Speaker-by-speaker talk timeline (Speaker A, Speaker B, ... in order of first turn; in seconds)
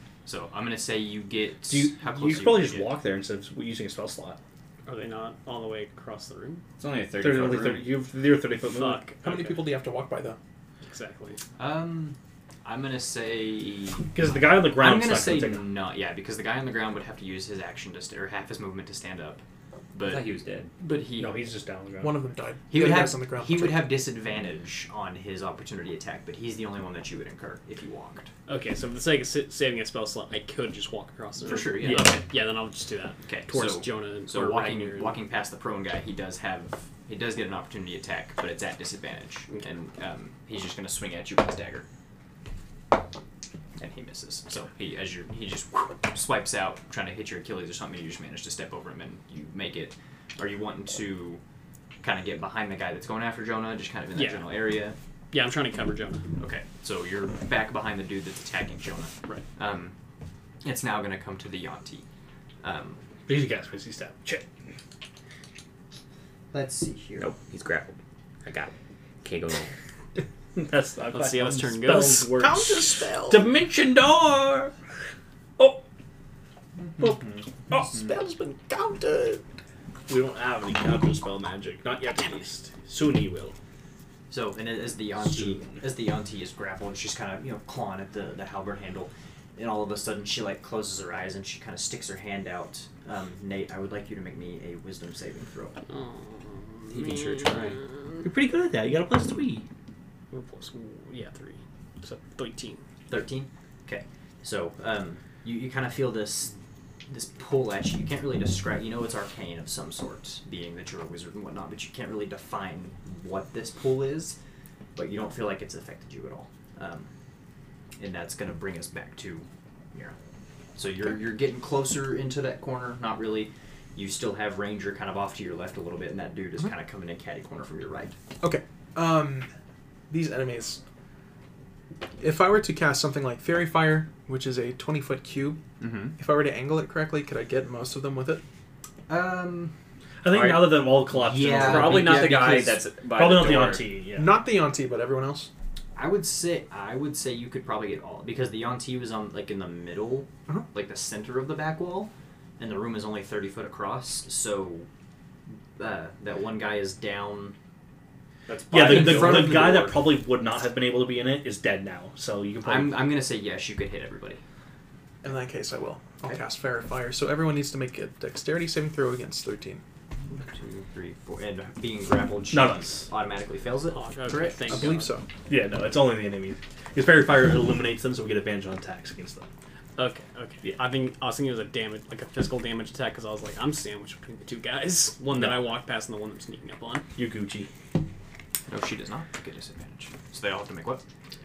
Speaker A: 0.2-2.9, 11.6-19.4, 19.9-21.4, 22.7-28.3, 31.4-32.2, 33.2-41.9, 43.8-51.4, 52.0-55.0, 56.4-59.9, 60.6-62.0, 62.6-63.0, 66.5-67.3, 76.9-77.3, 84.3-95.8, 103.1-106.5, 107.1-114.3, 115.0-117.1, 118.0-120.2, 120.8-128.2, 135.8-136.2, 139.1-139.7, 141.1-142.8, 145.9-154.9, 155.8-157.5, 158.7-160.1, 162.6-164.4, 170.3-175.1, 188.7-191.0
Speaker B: 1.7-4.4, 7.2-9.0, 14.1-15.7, 21.2-22.1, 31.8-32.1, 63.3-64.4, 70.5-74.7, 77.0-79.4, 80.1-83.5, 98.2-99.6, 140.2-144.3, 158.5-163.1, 172.5-173.1, 175.5-179.5, 185.3-185.7, 187.2-187.7
Speaker C: 4.8-6.6, 8.6-9.5, 10.8-11.4, 28.5-35.1, 54.1-54.6, 55.3-56.2, 71.1-72.3, 95.9-98.2, 100.3-102.8, 173.9-175.1, 179.9-187.1
Speaker D: 6.8-7.9, 20.0-20.7, 67.2-68.7, 69.2-69.7, 96.9-97.8, 140.3-140.8, 141.6-143.8
Speaker E: 9.2-10.4, 22.0-23.9, 72.4-73.5, 77.8-79.4, 128.4-129.5, 130.1-130.8, 132.2-135.6, 136.2-138.4, 144.1-145.5, 165.2-169.8, 174.7-175.2